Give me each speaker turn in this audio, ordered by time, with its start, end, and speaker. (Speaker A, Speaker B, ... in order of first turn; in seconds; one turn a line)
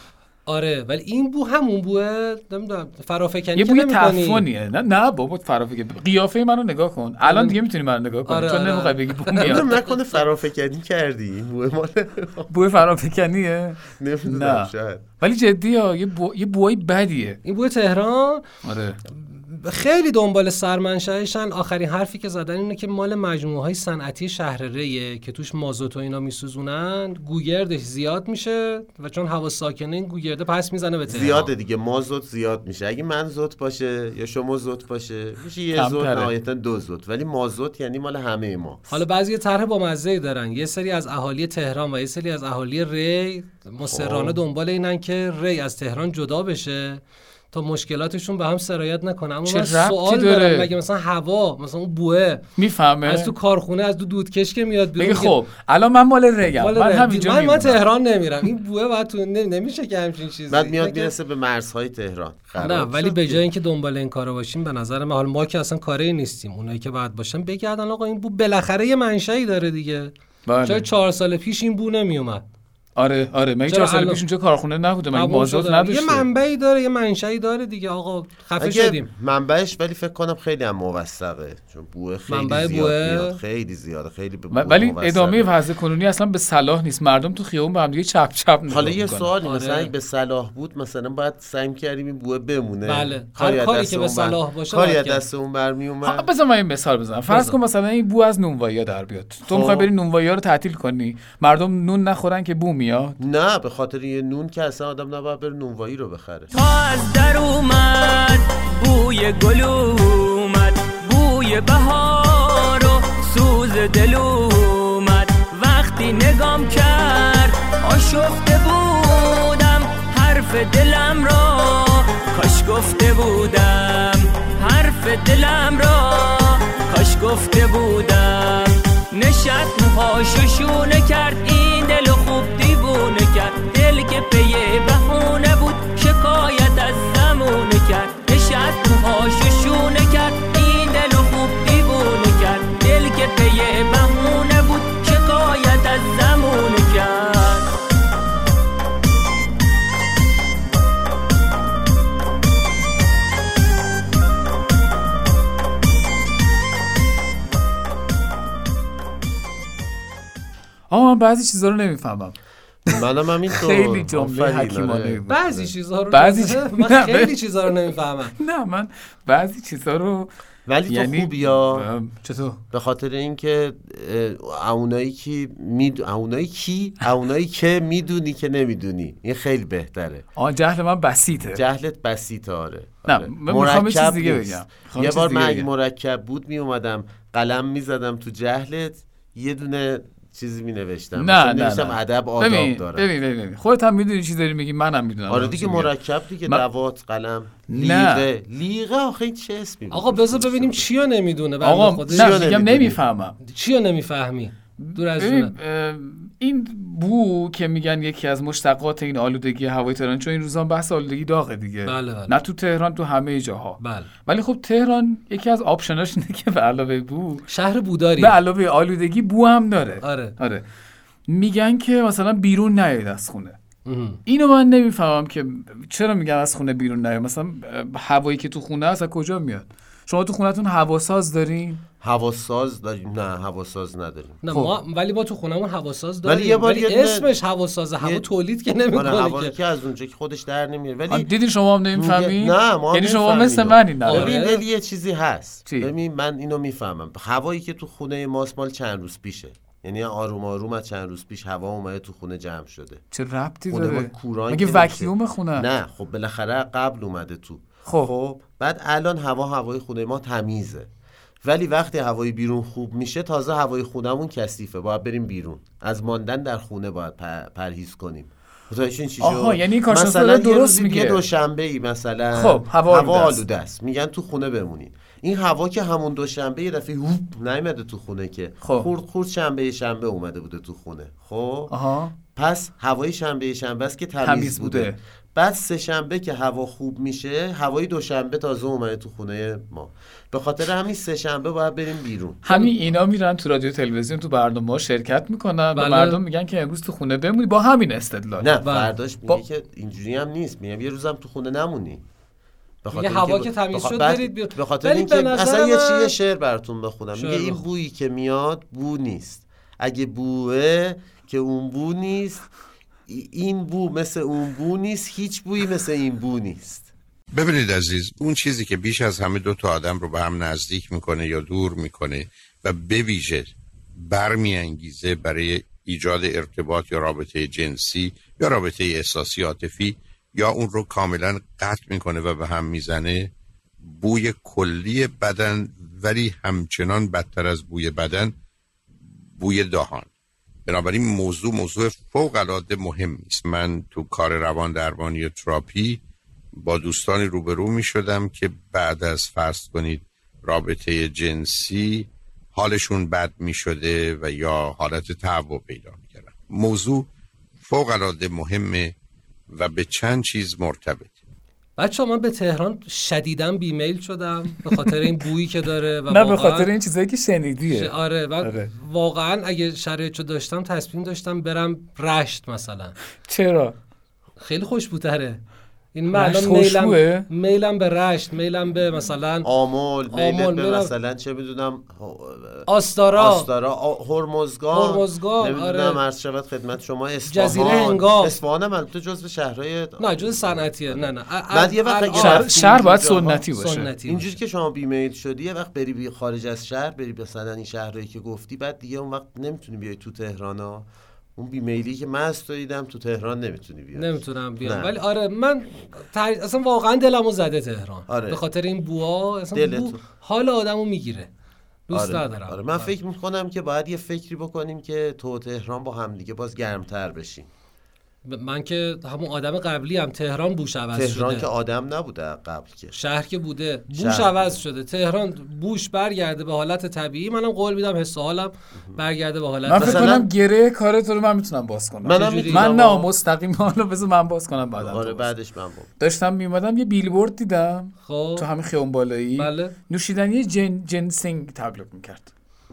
Speaker A: 0.5-4.5
Speaker B: 3.6-9.7
Speaker A: 7.2-7.6
Speaker A: 8.2-9.7
Speaker C: 9.4-12.5
Speaker B: 12.5-17.4
Speaker C: 13.9-15.1
Speaker A: 17.4-18.4
Speaker B: 18.6-19.0
Speaker A: 19.1-31.5
Speaker C: 31.1-39.0
Speaker B: 35.7-36.3
Speaker A: 38.9-52.4
Speaker C: 43.8-44.4
Speaker B: 49.5-50.7
Speaker B: 52.6-53.3
Speaker A: 53.0-55.4
Speaker B: 55.0-57.8
Speaker A: 56.6-61.1
Speaker C: 60.5-63.4
Speaker A: 62.6-70.1
Speaker B: 70.5-70.8
Speaker A: 70.6-72.4
Speaker B: 73.0-76.3
Speaker A: 73.7-74.2
Speaker A: 75.1-79.0
Speaker C: 78.6-85.5
Speaker A: 82.3-83.4
Speaker B: 84.5-89.3
Speaker C: 88.7-96.3
Speaker A: 89.4-89.9
Speaker A: 92.8-95.2
Speaker B: 96.0-103.2
Speaker A: 97.3-97.5
Speaker C: 99.5-99.9
Speaker C: 103.2-106.5
Speaker D: 106.5-147.7
Speaker B: 160.9-162.4
Speaker C: 162.9-165.7
Speaker B: 163.5-165.3
Speaker A: 165.3-168.3
Speaker B: 166.1-167.3
Speaker B: 168.4-170.3
Speaker C: 170.7-171.9
Speaker B: 170.9-172.6
Speaker C: 172.7-180.2
Speaker B: 180.3-181.6
Speaker C: 181.5-193.1
Speaker B: 183.1-185.7
Speaker B: 191.2-195.9
Speaker C: 195.3-200.9
Speaker B: 197.7-198.2
Speaker A: 199.9-202.4
Speaker B: 201.6-203.4
Speaker C: 202.1-203.0
Speaker A: 203.4-205.5
Speaker B: 204.8-217.4
Speaker A: 211.8-212.3
Speaker A: 213.8-214.1
Speaker A: 217.5-218.3
Speaker B: 218.2-220.6
Speaker A: 220.0-220.3
Speaker B: 221.3-223.6
Speaker A: 223.8-224.2
Speaker B: 224.3-231.8
Speaker C: 232.0-234.4
Speaker A: 234.4-239.5
Speaker C: 236.2-237.3
Speaker C: 238.0-238.3
Speaker C: 238.9-241.3
Speaker B: 241.1-244.4
Speaker C: 241.9-253.0
Speaker A: 244.1-244.6
Speaker B: 253.1-255.7
Speaker C: 253.7-260.9
Speaker B: 257.9-258.1
Speaker C: 261.4-281.7
Speaker B: 269.2-271.2
Speaker B: 272.3-273.4
Speaker B: 278.6-278.9
Speaker B: 281.7-282.1
Speaker C: 282.3-292.4
Speaker B: 284.2-285.0
Speaker B: 292.4-298.5
Speaker A: 295.7-296.2
Speaker C: 298.4-302.0
Speaker A: 298.6-298.9
Speaker C: 302.8-312.5
Speaker A: 302.9-306.1
Speaker A: 307.1-307.6
Speaker C: 313.1-316.9
Speaker E: 317.3-333.3
Speaker E: 333.8-338.3
Speaker E: 339.4-340.1
Speaker E: 340.7-346.0
Speaker E: 346.6-357.1
Speaker E: 357.6-358.9
Speaker E: 359.5-361.1
Speaker A: 361.8-366.7
Speaker B: 366.1-368.7
Speaker A: 367.7-372.9
Speaker B: 373.2-373.7
Speaker A: 374.4-375.4
Speaker A: 375.9-379.5
Speaker B: 376.1-377.3
Speaker C: 379.4-393.4
Speaker A: 380.1-380.9
Speaker A: 382.6-383.5
Speaker A: 384.7-386.0
Speaker A: 387.3-388.4
Speaker A: 390.0-392.6
Speaker B: 392.1-393.9
Speaker A: 393.5-394.4
Speaker C: 394.1-404.9
Speaker A: 403.9-411.3
Speaker C: 408.1-408.4
Speaker C: 409.5-410.0
Speaker A: 411.9-412.9
Speaker C: 411.9-417.5
Speaker A: 418.2-421.5
Speaker C: 420.9-422.9
Speaker A: 422.9-430.2
Speaker C: 423.9-424.6
Speaker B: 429.7-435.3
Speaker C: 429.8-430.3
Speaker C: 432.0-433.1
Speaker A: 432.1-432.7
Speaker C: 434.8-435.9
Speaker B: 436.0-442.3
Speaker A: 438.0-438.5
Speaker A: 439.4-439.7